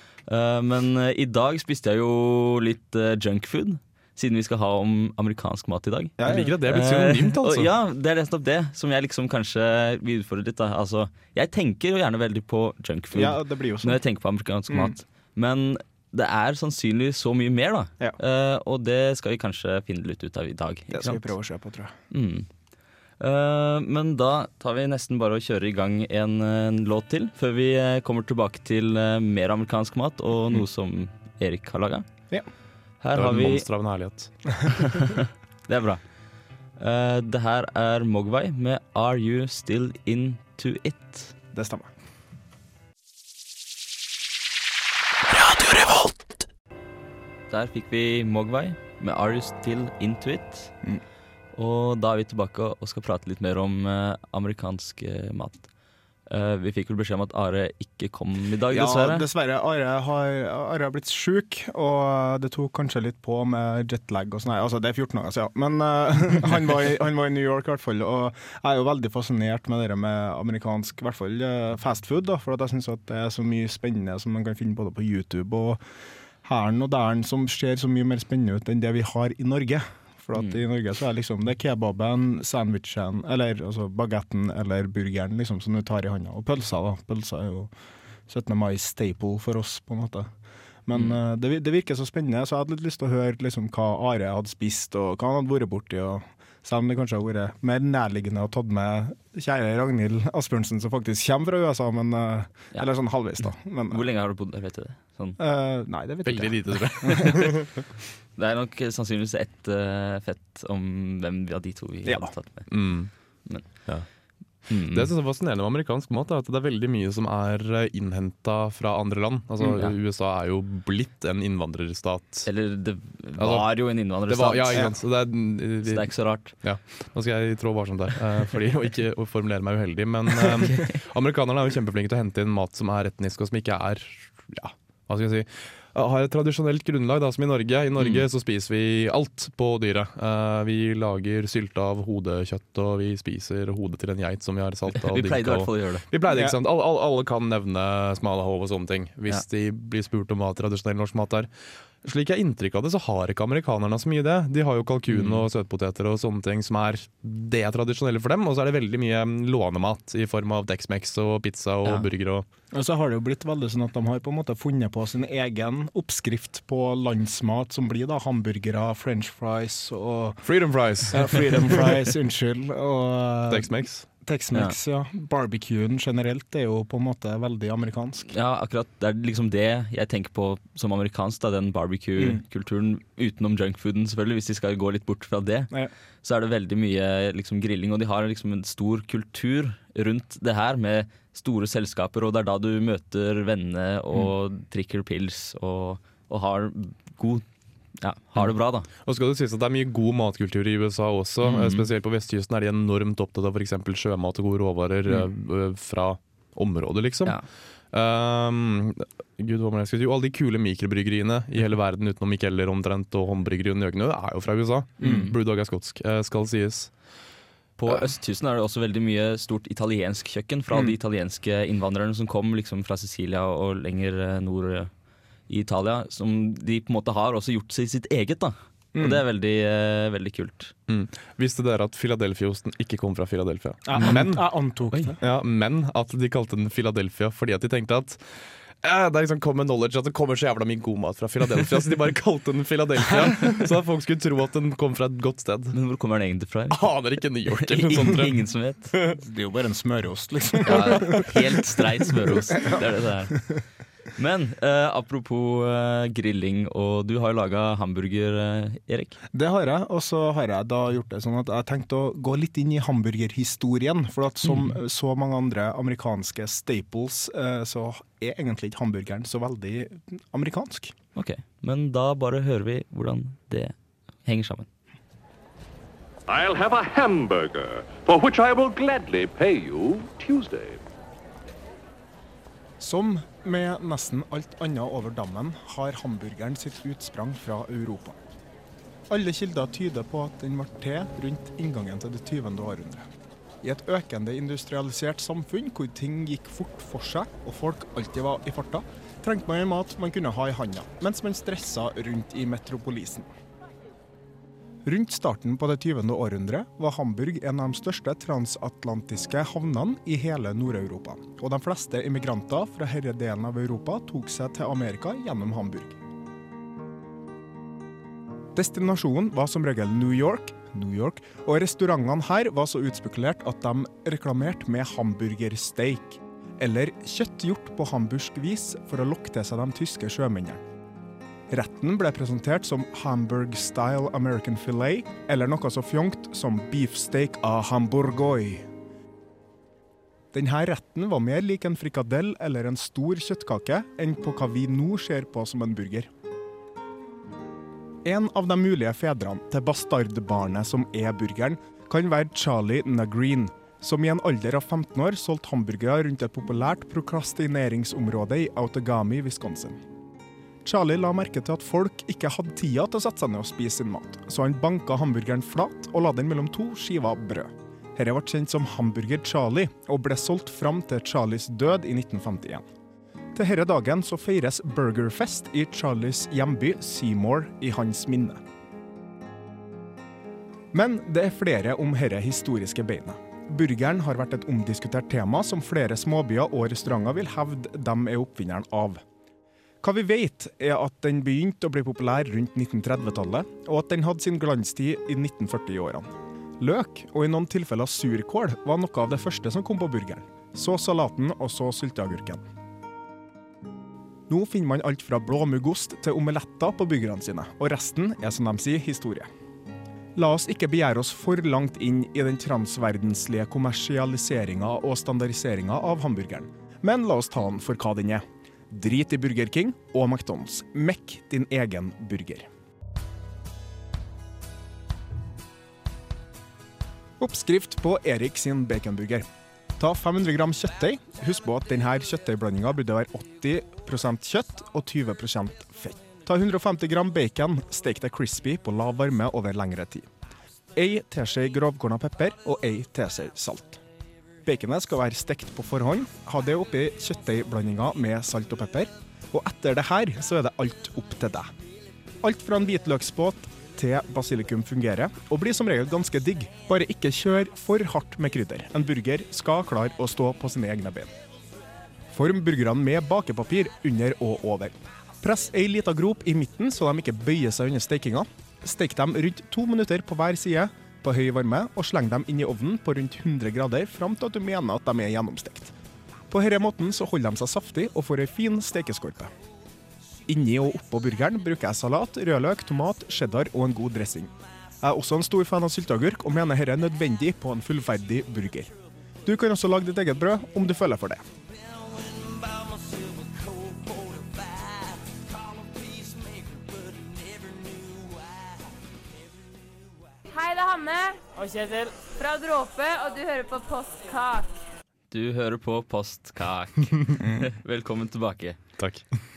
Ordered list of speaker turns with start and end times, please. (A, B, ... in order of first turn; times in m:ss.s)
0:00.3-0:21.3 A
0:06.2-0:06.6 B
0:06.2-0:07.7 C
0:13.1-0:14.0 B
0:14.7-0:14.9 B
0:20.9-0:21.9 B
0:22.1-0:22.5 A
0:23.2-0:32.1 A
0:33.0-0:33.7 A
0:33.2-0:34.3 C
0:34.7-0:36.0 A
0:36.8-0:41.3 A
0:41.5-0:41.9 B
0:45.4-0:46.1 B
0:47.5-0:50.7 A
0:51.5-0:55.7 A
0:56.3-0:59.3 A
0:58.7-1:15.8 B
1:16.4-1:27.7 B
1:28.3-1:30.3 B
1:30.9-1:44.0 B
1:43.9-1:45.4 A
1:45.4-1:47.7 B
1:46.3-1:47.7 C
1:48.4-1:52.8 A
1:52.0-1:52.3 B
1:52.7-1:53.1 C
1:54.7-1:55.1 A
1:54.9-2:02.5 C
2:02.5-2:04.9 A
2:03.4-2:03.7 C
2:04.2-2:31.5 C
2:05.8-2:06.5 A
2:10.6-2:11.0 A
2:18.0-2:18.2 A
2:25.0-2:26.1 A
2:26.3-2:26.6 B
2:32.0-2:42.4 C
2:35.1-2:35.5 A
2:42.7-2:50.4 B
2:50.4-2:51.9 C
2:51.0-2:53.7 B
2:53.5-2:54.1 C
2:54.2-2:58.3 B
2:58.3-3:05.7 A
3:06.2-3:17.4 A
3:18.0-3:18.9 A
3:19.0-3:27.4 C
3:21.4-3:21.9 A
3:27.9-3:36.9 C
3:35.0-3:35.3 A
3:37.8-3:44.9 A
3:45.5-3:50.7 A
3:48.9-3:49.2 B
3:50.9-3:54.5 C
3:53.9-3:55.2 B
3:54.0-3:54.2 A
3:55.2-3:58.2 C
3:58.8-4:05.8 C
4:05.7-4:06.9 A
4:06.7-4:09.2 C
4:07.5-4:08.9 A
4:09.1-4:11.3 B
4:10.6-4:13.4 A
4:12.2-4:13.6 B
4:14.2-4:19.2 A
4:19.3-4:30.9 B
4:31.2-4:33.7 A
4:34.2-4:34.7 A
4:36.3-4:40.8 D
4:42.8-4:48.2 B
4:49.1-4:53.1 B
4:53.6-5:03.3 B
5:04.8-5:16.0 B
5:18.6-5:30.6 B
5:31.5-5:38.7 B
5:40.3-5:46.1 B
5:48.0-5:59.8 B
6:00.6-6:12.7 B
6:13.4-6:18.4 B
6:20.7-6:29.0 B
6:29.8-6:36.1 B
6:36.6-6:42.4 B
6:44.3-6:49.3 B
6:50.2-7:02.5 B
7:07.2-7:09.3 B
7:09.8-7:20.1 B
7:20.8-7:23.8 B
7:24.4-7:31.5 B
7:32.2-7:41.1 B
7:42.1-7:55.7 B
7:56.3-7:59.3 B
8:00.3-8:08.7 B
8:09.2-8:11.2 B
8:20.3-8:24.6 E
8:25.1-8:28.6 A
8:28.8-8:29.0 C